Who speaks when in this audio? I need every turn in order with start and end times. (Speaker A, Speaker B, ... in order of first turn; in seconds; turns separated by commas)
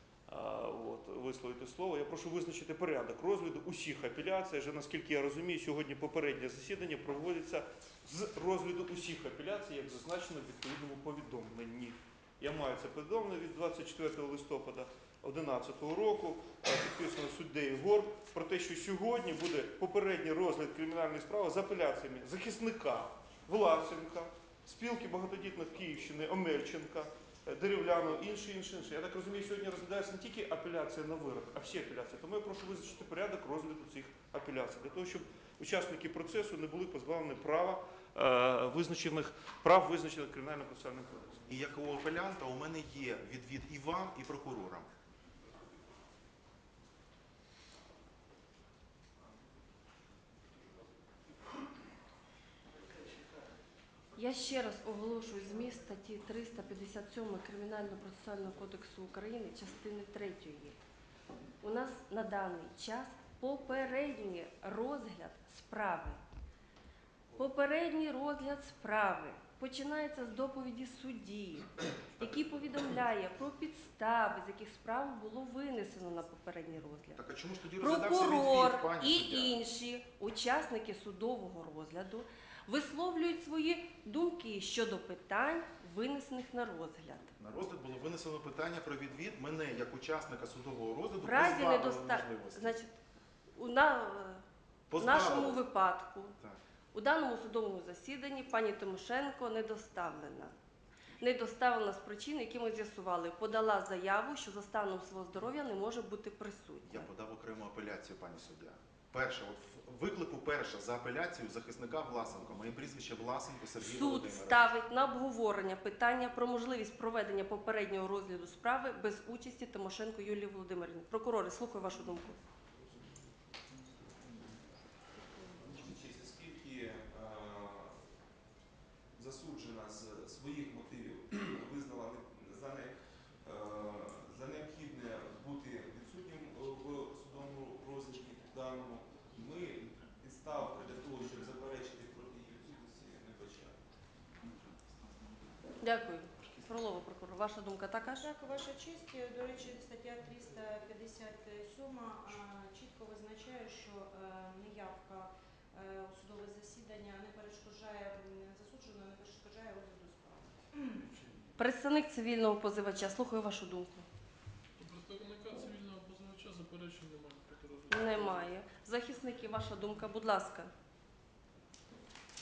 Speaker A: 0.3-41.4, Speaker B: 41.5-44.9, Speaker C: 54.1-60.8, Speaker C: 61.6-66.2, Speaker C: 67.3-77.2, Speaker B: 77.1-79.5, Speaker C: 77.8-87.3, Speaker B: 87.4-92.8, Speaker C: 91.2-93.0, Speaker C: 93.5-94.4, Speaker B: 94.9-95.6, Speaker C: 95.0-96.4, Speaker C: 96.9-100.5, Speaker C: 101.2-107.1, Speaker B: 106.8-114.7, Speaker C: 113.8-122.4, Speaker D: 125.6-128.0, Speaker D: 129.2-143.8, Speaker C: 145.8-148.3, Speaker E: 148.2-161.1, Speaker C: 161.6-164.1, Speaker F: 164.8-168.2, Speaker C: 167.9-170.7